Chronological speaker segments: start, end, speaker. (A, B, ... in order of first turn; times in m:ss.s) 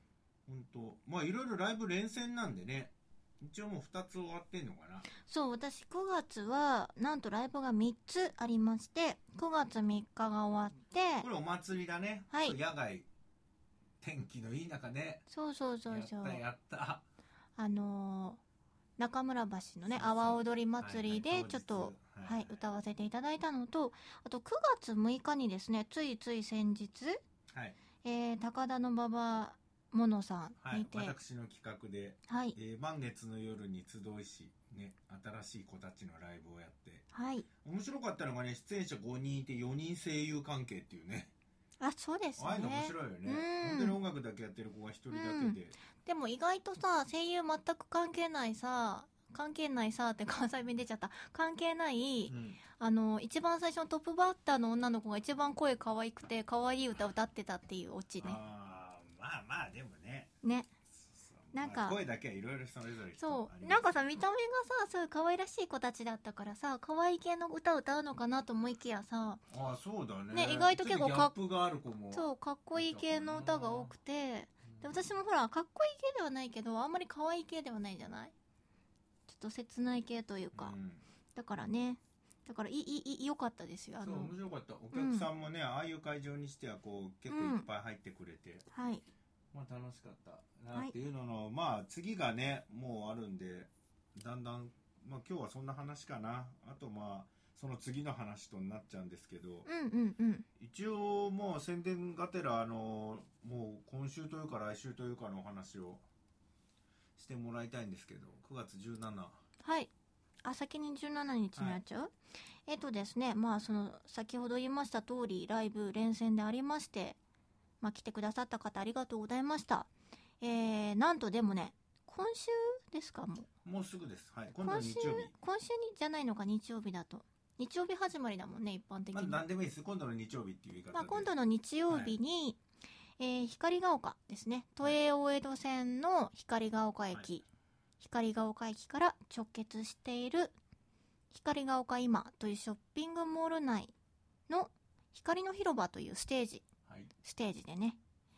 0:00.5-0:05.1 A
0:05.2-0:11.3 B
0:11.2-0:13.1 A
0:12.3-0:12.6 B
0:14.0-0:15.2 A
0:15.3-0:16.4 B
0:15.9-0:17.0 A
0:17.6-0:18.4 B
0:19.0-0:27.2 B
0:19.9-0:22.6 A
0:27.5-0:27.8 A
0:28.0-0:31.2 B
0:30.6-0:37.0 A
0:32.3-0:32.6 B
0:37.1-0:37.4 B
0:37.6-0:41.3 A
0:41.8-0:44.0 B
0:42.4-0:45.8 A
0:45.1-0:58.4 B
0:52.3-0:52.6 A
0:58.2-1:00.3 A
1:00.4-1:00.7 B
1:00.9-1:03.9 A
1:01.5-1:02.0 B
1:03.2-1:09.4 B
1:09.5-1:13.9 A
1:10.3-1:11.3 B
1:12.1-1:18.3 B
1:14.7-1:15.1 A
1:19.3-1:20.7 B
1:20.5-1:21.0 A
1:21.3-1:24.3 B
1:24.0-1:28.6 A
1:24.9-1:25.3 B
1:27.3-1:27.7 B
1:28.7-1:29.0 B
1:29.5-1:39.7 A
1:39.6-1:40.4 B
1:40.6-1:46.0 A
1:47.2-1:49.4 A
1:49.6-1:49.9 B
1:50.4-1:52.1 B
1:51.6-1:51.8 A
1:52.7-1:57.2 B
1:57.8-1:59.9 B
2:00.4-2:03.5 B
2:03.6-2:05.3 A
2:04.6-2:09.4 B
2:09.1-2:11.3 A
2:10.9-2:12.6 B
2:11.9-2:12.2 A
2:13.2-2:17.4 B
2:18.0-2:20.5 B
2:21.3-2:23.9 B
2:24.5-2:26.6 B
2:26.8-2:27.1 A
2:27.2-2:28.0 B